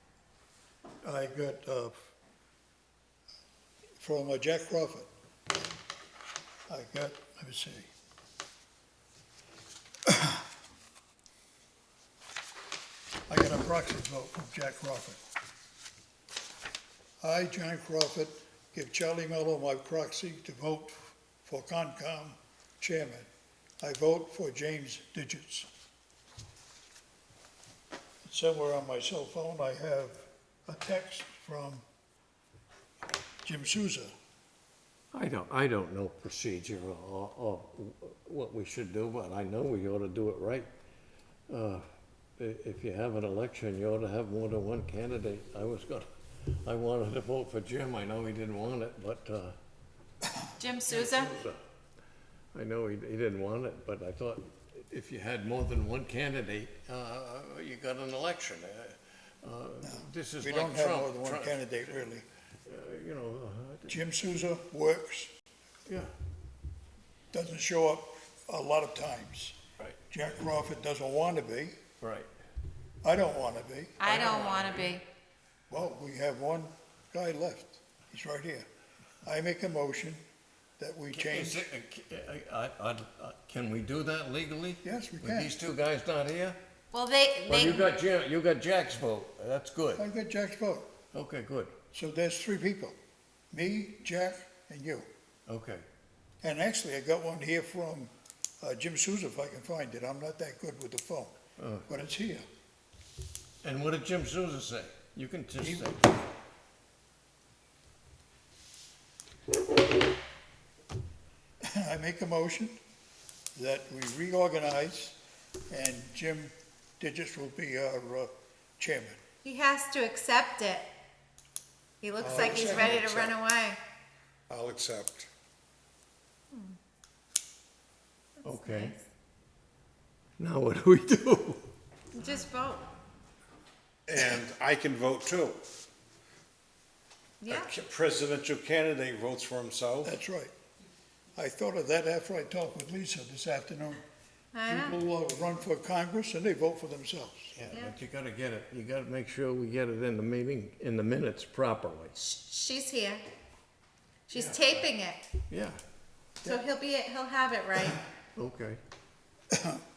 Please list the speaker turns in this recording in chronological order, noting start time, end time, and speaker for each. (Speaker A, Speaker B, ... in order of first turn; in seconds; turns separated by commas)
Speaker A: 1.0-1.9, Speaker A: 4.0-5.1, Speaker A: 6.7-7.9, Speaker A: 10.1-10.4, Speaker A: 13.3-15.2, Speaker A: 17.2-23.3, Speaker A: 23.8-25.7, Speaker A: 28.2-31.8, Speaker A: 33.4-34.1, Speaker B: 35.1-40.7, Speaker B: 41.5-41.8, Speaker B: 42.4-49.5, Speaker C: 50.6-51.4, Speaker B: 50.9-51.6, Speaker B: 52.5-62.0, Speaker A: 59.8-62.2, Speaker B: 62.7-63.9, Speaker A: 63.9-65.3, Speaker A: 67.3-69.6, Speaker A: 70.1-71.8, Speaker B: 72.0-72.3, Speaker A: 73.0-74.1, Speaker C: 74.0-75.0, Speaker B: 74.0-75.0, Speaker A: 75.7-78.7, Speaker A: 79.2-80.2, Speaker A: 80.8-81.7, Speaker B: 81.1-86.6, Speaker A: 84.8-85.5, Speaker C: 86.9-87.9, Speaker B: 87.5-90.0, Speaker A: 90.0-90.9, Speaker B: 91.1-91.7, Speaker A: 91.9-93.0, Speaker A: 93.5-95.1, Speaker B: 95.5-95.8, Speaker A: 96.4-101.3, Speaker B: 101.6-101.9, Speaker A: 101.9-102.5, Speaker B: 103.6-106.1, Speaker A: 105.6-105.9, Speaker A: 111.6-112.8, Speaker A: 113.5-115.2, Speaker A: 115.7-119.2, Speaker C: 119.4-120.9, Speaker C: 122.0-123.8, Speaker A: 122.2-123.3, Speaker D: 122.2-123.3, Speaker D: 124.5-125.3, Speaker C: 126.5-126.8, Speaker B: 128.4-128.9, Speaker C: 128.4-129.1, Speaker B: 130.4-131.6, Speaker C: 132.1-132.8, Speaker D: 134.1-135.6, Speaker C: 137.4-137.7, Speaker D: 137.5-140.1, Speaker A: 140.0-140.5, Speaker A: 141.3-144.0, Speaker C: 144.5-144.9, Speaker A: 144.7-147.6, Speaker B: 147.6-152.2, Speaker C: 147.7-147.9, Speaker C: 152.2-153.2, Speaker C: 154.3-155.2, Speaker B: 154.3-154.8, Speaker B: 155.5-155.8, Speaker C: 156.4-158.0, Speaker B: 158.3-158.8, Speaker A: 159.5-159.8